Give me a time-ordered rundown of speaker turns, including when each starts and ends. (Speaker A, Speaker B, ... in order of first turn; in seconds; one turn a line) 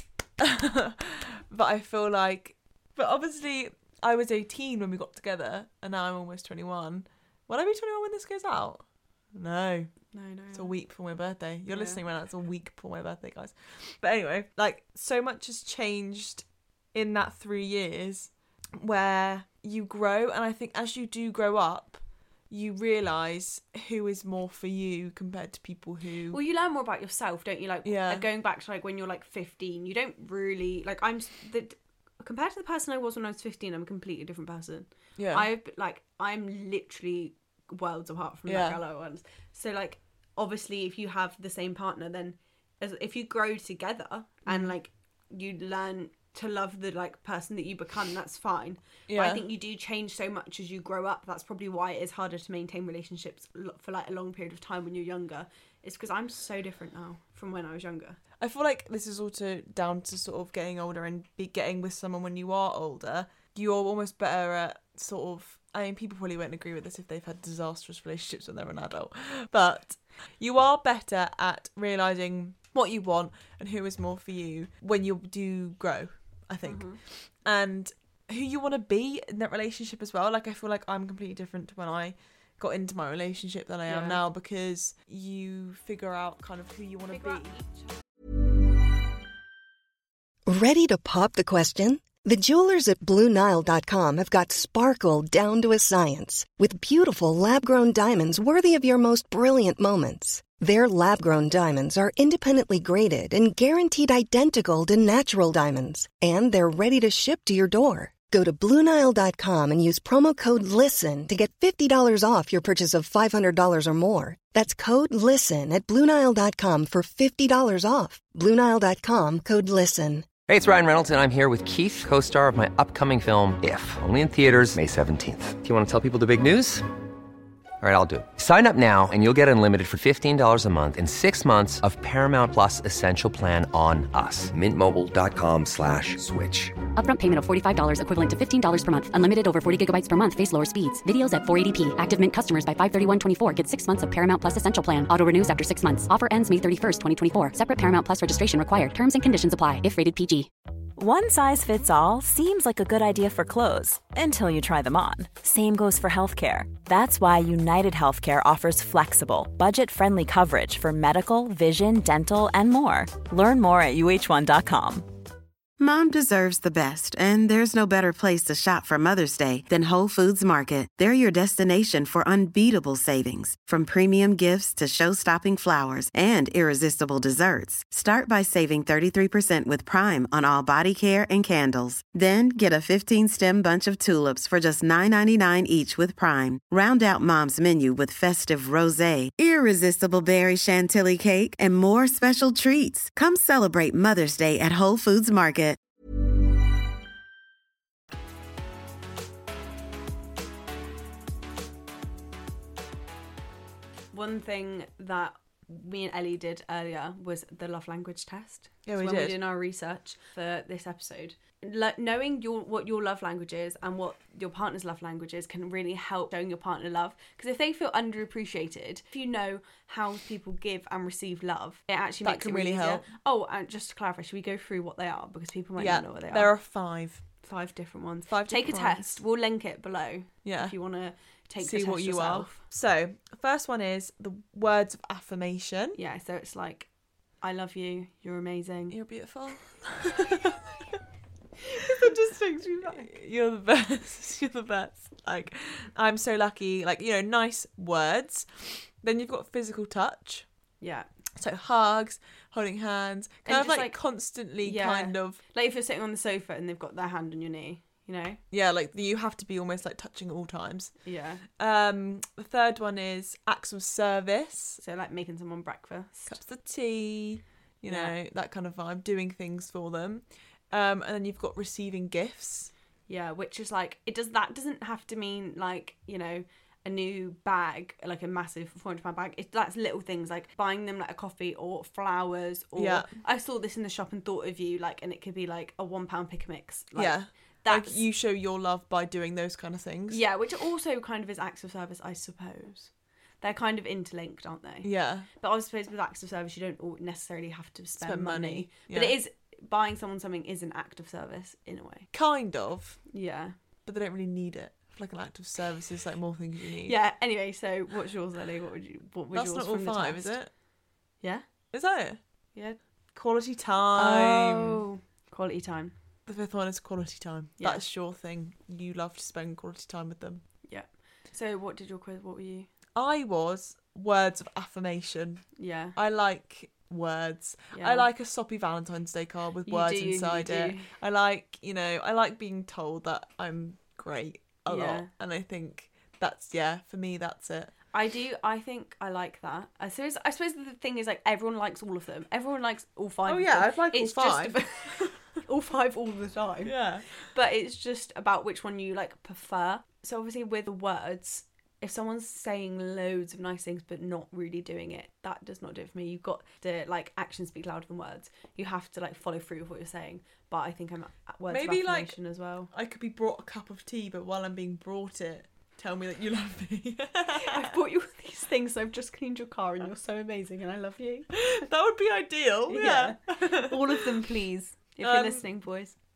Speaker A: 0.4-9.9
Speaker B: 10.1-10.7
Speaker A: 10.5-26.4
Speaker B: 11.7-12.0
Speaker B: 26.3-58.2
Speaker A: 27.9-28.3
Speaker A: 35.2-35.5
Speaker A: 38.5-38.8
Speaker A: 44.5-44.7
Speaker A: 49.1-49.5
Speaker A: 58.4-87.5
Speaker B: 76.6-77.0
Speaker B: 83.9-84.2
Speaker B: 87.1-87.9
Speaker C: 90.5-120.3
Speaker D: 120.5-126.8
Speaker D: 127.8-136.8
Speaker E: 137.0-150.5
Speaker F: 151.0-165.1
Speaker G: 165.8-195.8
Speaker B: 204.1-226.5
Speaker A: 208.9-209.4
Speaker A: 222.2-223.1
Speaker A: 225.8-227.2
Speaker B: 227.4-232.6
Speaker A: 228.3-229.2
Speaker A: 230.4-230.8
Speaker A: 231.6-236.0
Speaker B: 236.0-236.9
Speaker B: 237.4-239.0
Speaker A: 238.9-241.0
Speaker B: 241.6-243.1
Speaker A: 241.9-242.3
Speaker A: 242.8-250.5
Speaker B: 250.8-251.1
Speaker A: 251.4-255.4
Speaker B: 253.4-254.0
Speaker B: 254.6-258.4
Speaker A: 258.5-260.9
Speaker B: 261.0-261.4
Speaker A: 261.5-264.8
Speaker B: 264.8-266.4
Speaker A: 266.3-272.7
Speaker B: 267.9-268.1
Speaker B: 273.1-288.0
Speaker A: 282.8-283.1
Speaker A: 286.9-290.2
Speaker B: 290.1-302.1
Speaker A: 294.8-295.3
Speaker A: 298.0-299.2
Speaker A: 302.1-303.0
Speaker B: 303.1-303.5
Speaker A: 303.9-307.0
Speaker B: 306.9-310.4
Speaker A: 309.3-310.5
Speaker A: 311.7-312.2
Speaker A: 313.1-314.8
Speaker B: 313.9-315.9
Speaker A: 316.3-320.4
Speaker B: 320.6-322.7
Speaker A: 322.9-325.4
Speaker B: 325.6-326.0
Speaker A: 326.0-337.7
Speaker B: 327.7-328.1
Speaker B: 329.6-330.9
Speaker B: 334.7-335.1
Speaker B: 337.9-362.7
Speaker A: 343.3-345.2
Speaker A: 346.6-347.1
Speaker A: 361.5-362.2
Speaker A: 362.7-367.8
Speaker B: 367.4-371.3
Speaker A: 371.3-374.2
Speaker B: 372.7-376.0
Speaker A: 375.0-375.4